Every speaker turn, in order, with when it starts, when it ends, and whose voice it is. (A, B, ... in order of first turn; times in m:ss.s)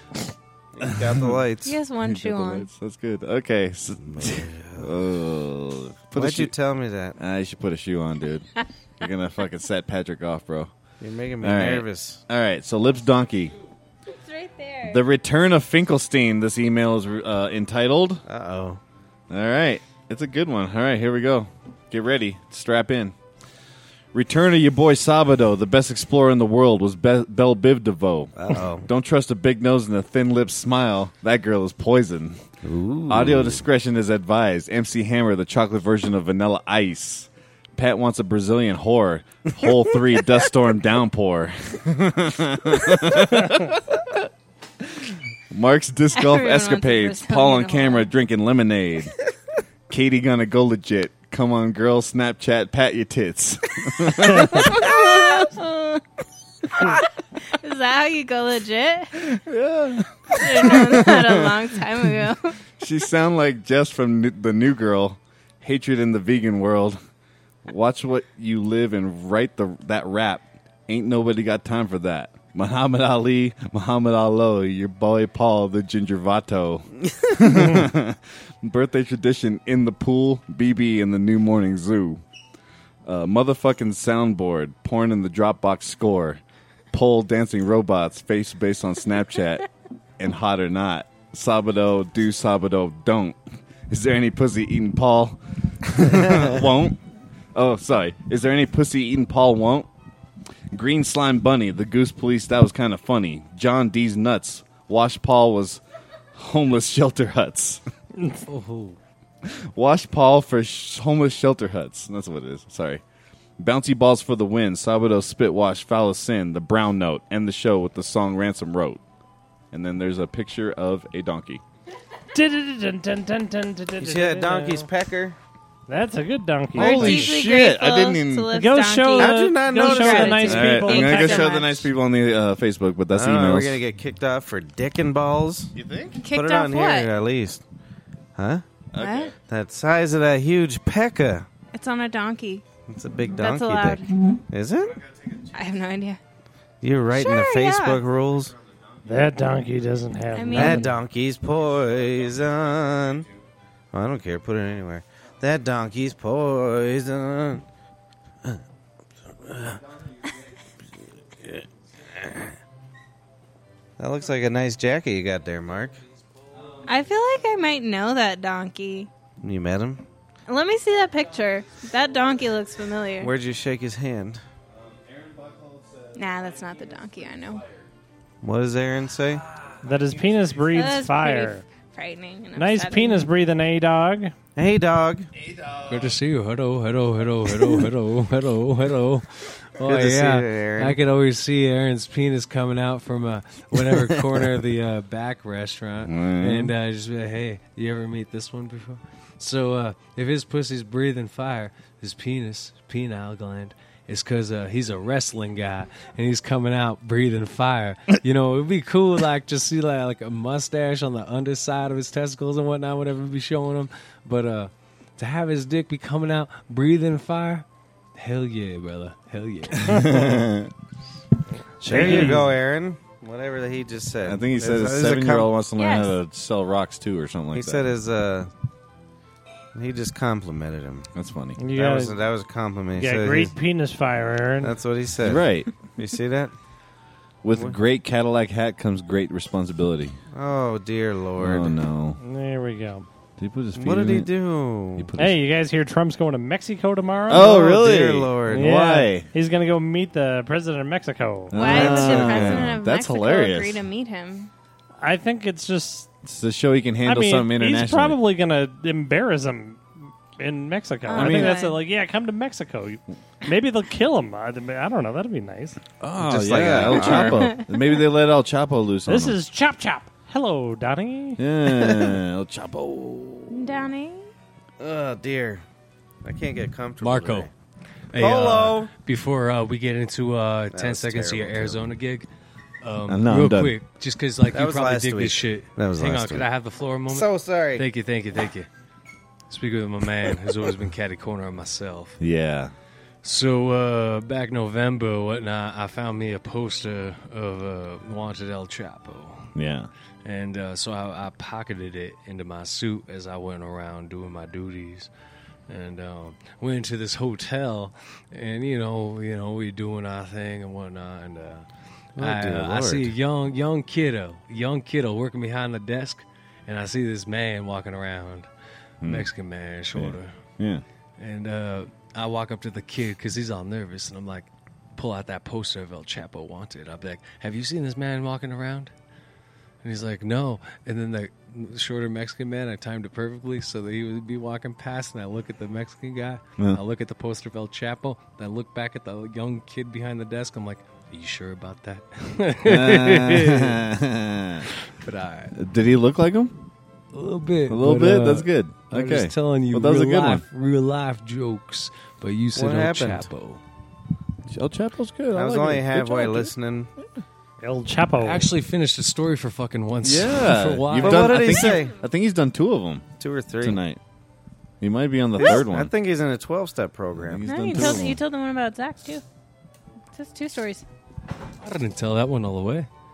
0:00.7-0:01.7 A
0:00.8-0:01.4 B
0:01.6-0:02.7 C
0:02.0-0:06.5 B
0:04.0-0:04.9 A
0:06.1-0:07.2 A
0:07.2-0:10.7 B
0:11.0-0:12.2 A
0:11.4-0:13.5 B
0:14.1-0:15.0 C
0:14.9-0:18.2 B
0:18.2-0:18.8 A
0:19.3-0:23.1 B
0:24.1-0:32.4 B
0:28.4-0:28.8 A
0:32.6-0:33.6 A
0:33.1-0:44.3 B
0:44.8-0:49.1 B
0:46.1-0:48.1 C
0:49.9-0:55.5 B
0:54.5-0:56.0 C
0:56.8-0:59.2 C
0:59.2-1:01.7 B
1:00.3-1:02.6 C
1:02.8-1:07.0 B
1:07.6-1:22.2 B
1:23.0-1:26.4 B
1:26.9-1:29.6 B
1:30.2-1:33.4 B
1:33.9-1:37.0 B
1:37.5-1:39.9 B
1:40.7-1:45.8 B
1:46.3-1:47.8 B
1:48.5-1:49.0 D
1:49.4-1:53.0 B
1:53.6-1:59.0 B
1:59.7-2:01.6 B
2:02.3-2:04.9 E
2:04.0-2:05.4 A
2:05.9-2:07.3 E
2:06.7-2:08.5 B
2:06.8-2:11.9 C
2:08.5-2:11.5 E
2:09.2-2:10.6 A
2:10.4-2:13.8 B
2:13.1-2:15.7 A
2:15.7-2:16.2 B
2:16.2-2:17.1 C
2:16.3-2:17.6 A
2:18.4-2:18.6 A
2:18.9-2:19.3 B
2:19.0-2:19.3 C
2:19.5-2:21.5 A
2:21.7-2:22.6 C
2:22.9-2:25.0 A
2:23.3-2:24.1 C
2:25.5-2:26.2 C
2:26.8-2:28.5 A
2:27.1-2:28.0 C
2:29.0-2:30.9 E
2:30.3-2:30.9 C
2:30.5-2:33.3 A
2:33.9-2:37.6 A
2:39.4-2:39.8 A
2:42.1-2:42.4 A
2:44.0-2:46.0 A
2:46.8-2:49.1 C
2:49.4-2:50.0 A
2:50.5-2:53.3 C
2:53.2-2:54.4 A
2:54.7-2:57.9 B
2:56.1-2:57.6 C
2:58.4-2:59.4 A
2:59.6-3:00.1 B
2:59.8-3:01.6 E
3:00.7-3:03.3 C
3:02.6-3:04.3 E
3:04.6-3:05.3 A
3:05.4-3:06.1 B
3:05.8-3:40.2 D
3:09.8-3:11.0 A
3:16.0-3:16.7 B
3:39.8-3:40.7 B
3:41.8-3:42.5 E
3:41.8-3:45.5 A
3:41.9-3:42.3 B
3:44.2-3:47.9 B
3:45.8-3:46.2 C
3:47.5-3:48.5 A
3:49.7-3:51.1 A
3:51.1-3:51.6 B
3:51.6-3:52.2 E
3:51.7-3:53.5 A
3:53.0-3:54.7 E
3:54.6-3:56.5 A
3:55.2-3:55.7 B
3:57.4-4:00.2 B
3:57.5-3:57.8 A
4:00.3-4:01.8 A
4:01.4-4:02.2 B
4:02.2-4:03.1 E
4:03.4-4:04.3 B
4:03.8-4:05.1 A
4:05.0-4:05.4 B
4:05.2-4:07.6 E
4:07.3-4:09.3 B
4:07.3-4:08.7 A
4:08.5-4:11.6 E
4:11.5-4:13.8 B
4:11.5-4:14.5 C
4:11.7-4:12.7 A
4:15.0-4:16.1 E
4:16.2-4:18.2 B
4:17.0-4:19.8 E
4:20.4-4:25.8 E
4:21.1-4:21.8 C
4:21.1-4:21.6 B
4:26.0-4:29.4 B
4:26.2-4:27.6 A
4:27.1-4:27.6 C
4:29.1-4:31.4 E
4:31.4-4:33.8 B
4:31.7-4:32.2 A
4:33.5-4:34.3 C
4:34.8-4:35.6 A
4:36.2-4:37.5 A
4:37.0-4:37.5 D
4:38.1-4:42.3 D
4:38.1-4:38.9 A
4:40.7-4:41.9 A
4:42.8-4:48.7 D
4:43.1-4:43.8 B
4:44.4-4:46.5 A
4:47.0-4:47.9 A
4:49.5-4:52.2 D
4:52.2-4:52.7 B
4:53.2-4:59.5 D
4:59.5-4:59.9 B
5:00.2-5:05.1 D
5:05.7-5:18.5 D
5:12.2-5:13.1 A
5:19.0-5:19.3 B
5:19.0-5:20.3 D
5:19.9-5:20.8 B
5:21.2-5:28.9 D
5:29.8-5:43.9 D
5:42.6-5:44.7 B
5:44.7-5:45.6 D
5:45.5-5:46.6 B
5:47.1-5:53.6 D
5:47.7-5:50.4 B
5:52.5-5:53.3 A
5:54.5-5:56.5 B
5:55.3-5:56.9 A
5:57.6-5:58.5 E
5:58.1-6:01.6 D
6:00.0-6:03.1 B
6:01.0-6:02.0 A
6:03.2-6:03.8 A
6:03.6-6:04.0 B
6:04.8-6:05.9 B
6:05.4-6:08.0 A
6:07.1-6:08.2 B
6:07.4-6:09.2 C
6:10.1-6:10.8 C
6:11.6-6:12.9 D